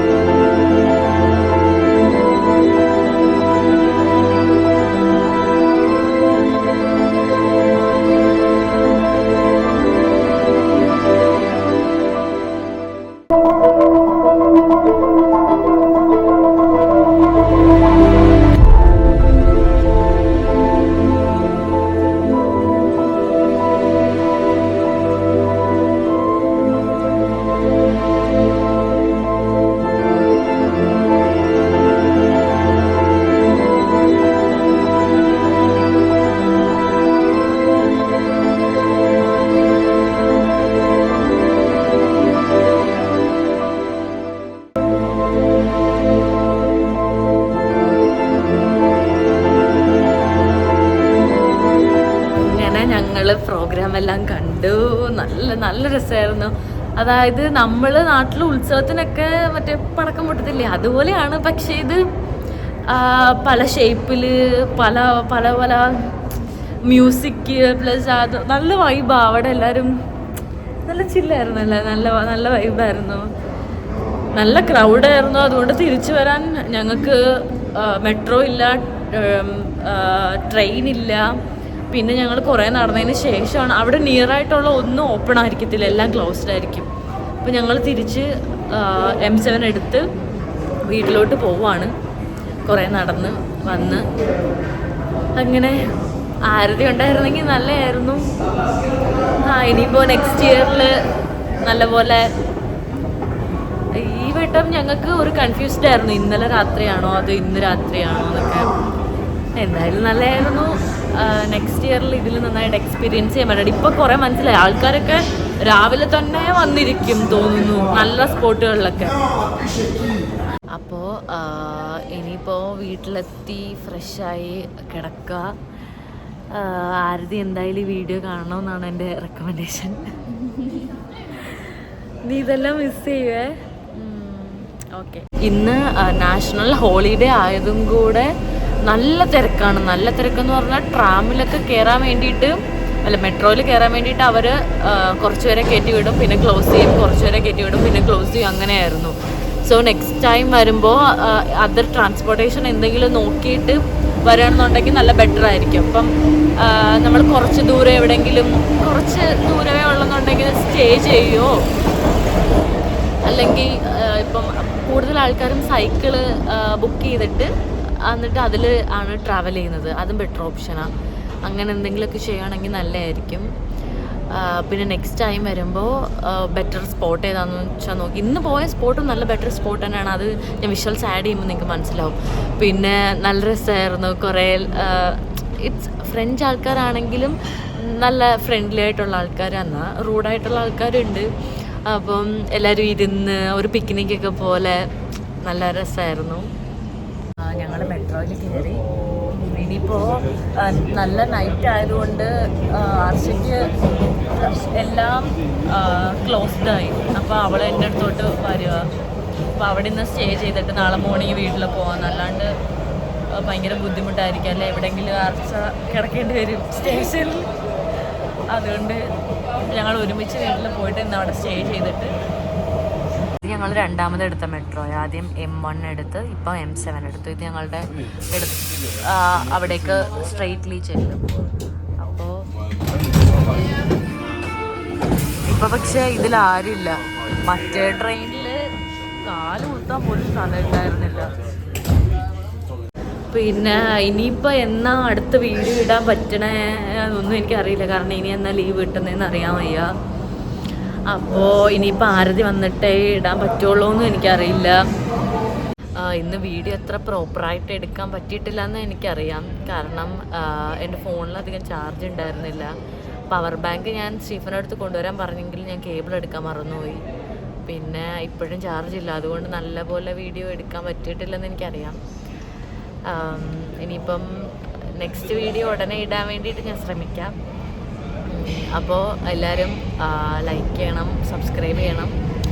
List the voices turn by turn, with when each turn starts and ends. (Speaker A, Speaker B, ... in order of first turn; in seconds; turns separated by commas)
Speaker A: 52.4-62.0, Speaker A: 62.9-66.2, Speaker A: 66.8-69.9, Speaker A: 70.9-73.3, Speaker A: 74.3-81.4, Speaker A: 81.9-86.9, Speaker A: 87.4-90.1, Speaker A: 90.9-91.9, Speaker A: 92.7-94.1, Speaker A: 95.4-95.8, Speaker A: 96.5-98.3, Speaker A: 99.4-101.0, Speaker A: 101.6-102.3, Speaker A: 103.9-108.7, Speaker A: 109.6-119.2, Speaker A: 120.7-125.6, Speaker A: 126.5-161.6, Speaker A: 163.3-167.5, Speaker A: 168.1-170.9, Speaker A: 171.5-173.5, Speaker A: 174.3-194.9, Speaker A: 195.4-196.5, Speaker A: 197.4-208.9, Speaker A: 209.6-212.5, Speaker A: 213.3-217.5, Speaker A: 218.1-219.1, Speaker A: 219.6-222.1, Speaker A: 223.4-231.2, Speaker A: 232.0-232.4, Speaker A: 235.5-238.6, Speaker A: 239.2-241.3, Speaker A: 243.3-249.9, Speaker A: 251.1-254.8, Speaker A: 256.0-262.8, Speaker A: 263.3-267.0, Speaker A: 267.7-272.0, Speaker A: 273.1-277.4, Speaker A: 278.3-282.1